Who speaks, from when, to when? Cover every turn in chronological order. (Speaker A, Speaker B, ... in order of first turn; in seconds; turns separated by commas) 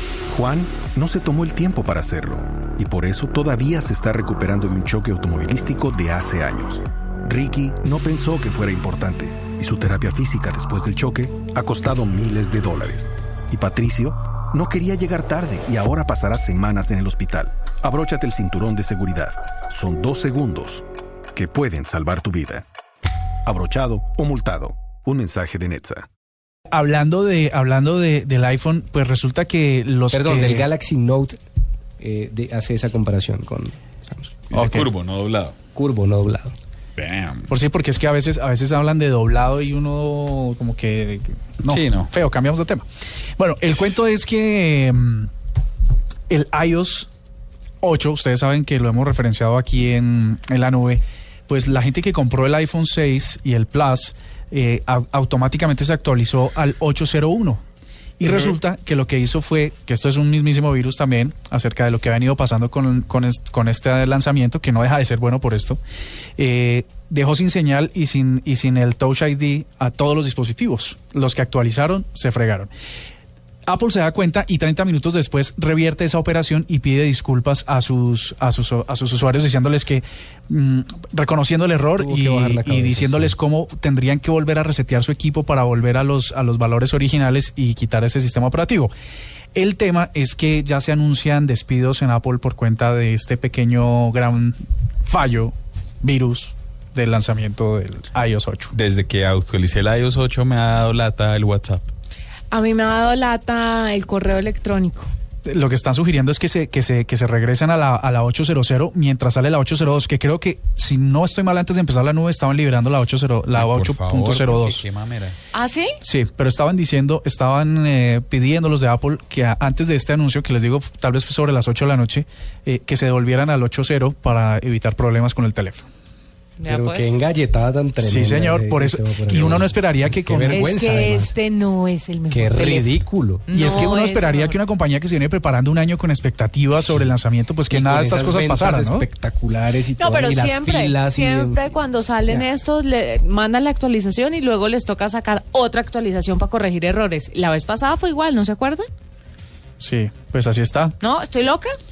Speaker A: 0.3-20.8, Speaker A: 21.4-22.6, Speaker A: 23.5-26.1, Speaker B: 26.7-30.7, Speaker C: 30.1-31.4, Speaker C: 32.0-34.5, Speaker B: 34.5-34.9, Speaker D: 34.5-35.5, Speaker C: 35.8-36.5, Speaker D: 37.0-37.5, Speaker B: 37.5-45.3, Speaker D: 41.7-42.1, Speaker B: 46.3-47.1, Speaker B: 47.8-57.6, Speaker B: 58.2-65.8, Speaker B: 66.4-72.7, Speaker B: 73.7-88.9, Speaker C: 82.0-83.3, Speaker B: 89.5-98.7, Speaker D: 98.7-101.9, Speaker E: 102.5-105.1, Speaker B: 105.5-114.8, Speaker D: 113.5-115.4, Speaker E: 115.5-115.9, Speaker B: 116.0-125.9, Speaker E: 126.6-127.1, Speaker C: 126.7-131.4, Speaker B: 128.0-130.9, Speaker E: 130.5-132.9, Speaker C: 132.3-133.6, Speaker E: 133.5-134.6, Speaker B: 133.5-139.1, Speaker C: 137.7-141.7, Speaker E: 140.0-148.9, Speaker B: 149.8-151.0, Speaker E: 151.0-151.8